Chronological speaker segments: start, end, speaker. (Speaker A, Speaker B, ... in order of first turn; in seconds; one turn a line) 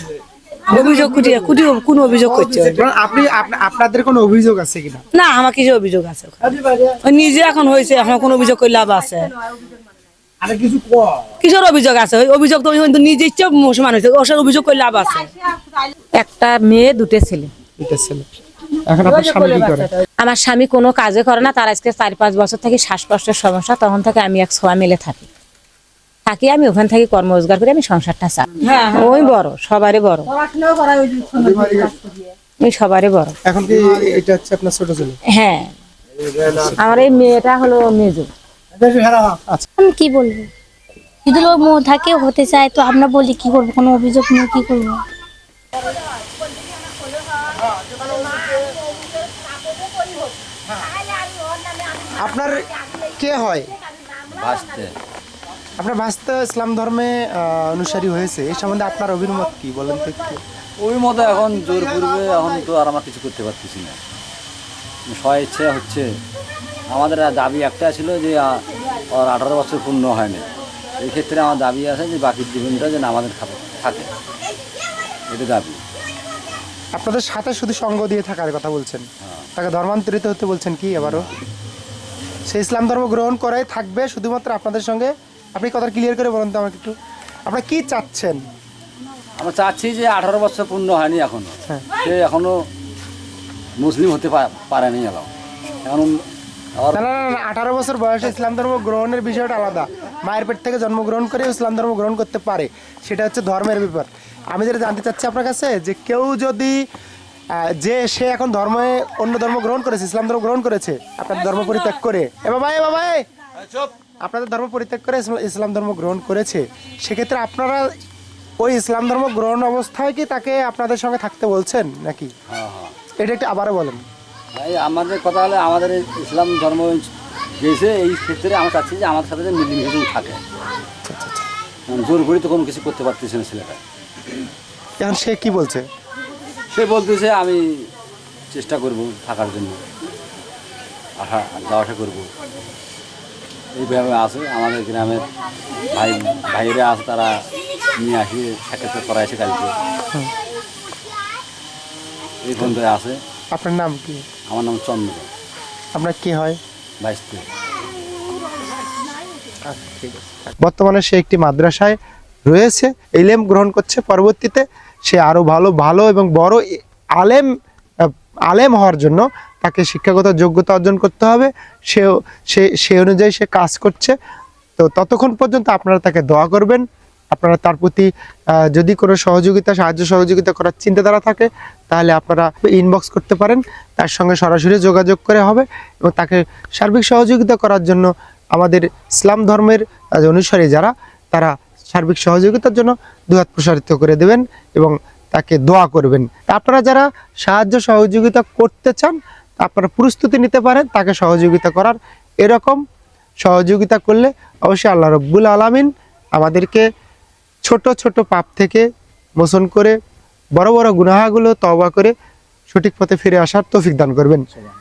Speaker A: 0.7-2.8
Speaker B: 2.6-5.0
Speaker A: 5.1-9.3
Speaker A: 10.5-10.8
Speaker A: 11.4-15.3
Speaker C: 16.2-17.5
Speaker B: 17.8-18.2
Speaker B: 18.9-19.9
Speaker C: 20.2-25.2
Speaker C: 26.2-30.3
Speaker A: 30.5-31.3
Speaker B: 31.3-32.0
Speaker C: 32.6-33.4
Speaker B: 33.4-35.2
Speaker C: 35.3-35.7
Speaker C: 36.8-38.3
Speaker B: 38.8-39.6
Speaker D: 39.8-40.5
Speaker D: 41.2-45.0
Speaker B: 52.2-52.6
Speaker B: 53.2-53.7
Speaker E: 54.4-54.9
Speaker B: 55.8-60.4
Speaker E: 60.8-64.0
Speaker E: 65.1-66.1
Speaker E: 66.9-68.6
Speaker E: 69.1-70.4
Speaker E: 71.0-74.1
Speaker E: 75.3-75.8
Speaker B: 76.9-79.0
Speaker B: 79.5-81.3
Speaker E: 81.0-81.3
Speaker B: 82.5-86.9
Speaker B: 87.5-88.4
Speaker E: 89.4-92.5
Speaker E: 93.8-95.3
Speaker E: 95.8-96.2
Speaker E: 96.8-97.4
Speaker B: 96.9-106.8
Speaker B: 107.6-113.2
Speaker B: 114.2-117.9
Speaker B: 118.6-122.3
Speaker E: 122.5-122.9
Speaker B: 123.2-124.0
Speaker E: 124.5-127.1
Speaker E: 127.6-130.4
Speaker B: 131.1-131.5
Speaker E: 131.9-133.8
Speaker B: 135.0-135.8
Speaker E: 136.7-137.8
Speaker E: 138.5-139.8
Speaker E: 141.2-142.3
Speaker E: 143.7-145.2
Speaker E: 145.9-147.3
Speaker E: 148.0-149.7
Speaker E: 152.4-153.2
Speaker B: 153.5-154.2
Speaker E: 154.5-155.3
Speaker B: 155.9-156.6
Speaker E: 157.0-157.4
Speaker B: 159.7-167.5
Speaker B: 168.5-174.1
Speaker B: 174.8-178.1
Speaker B: 178.7-202.8
Speaker B: 203.4-206.8
Speaker B: 207.6-208.8
Speaker B: 209.4-209.9
Speaker B: 210.6-212.1
Speaker B: 212.7-214.4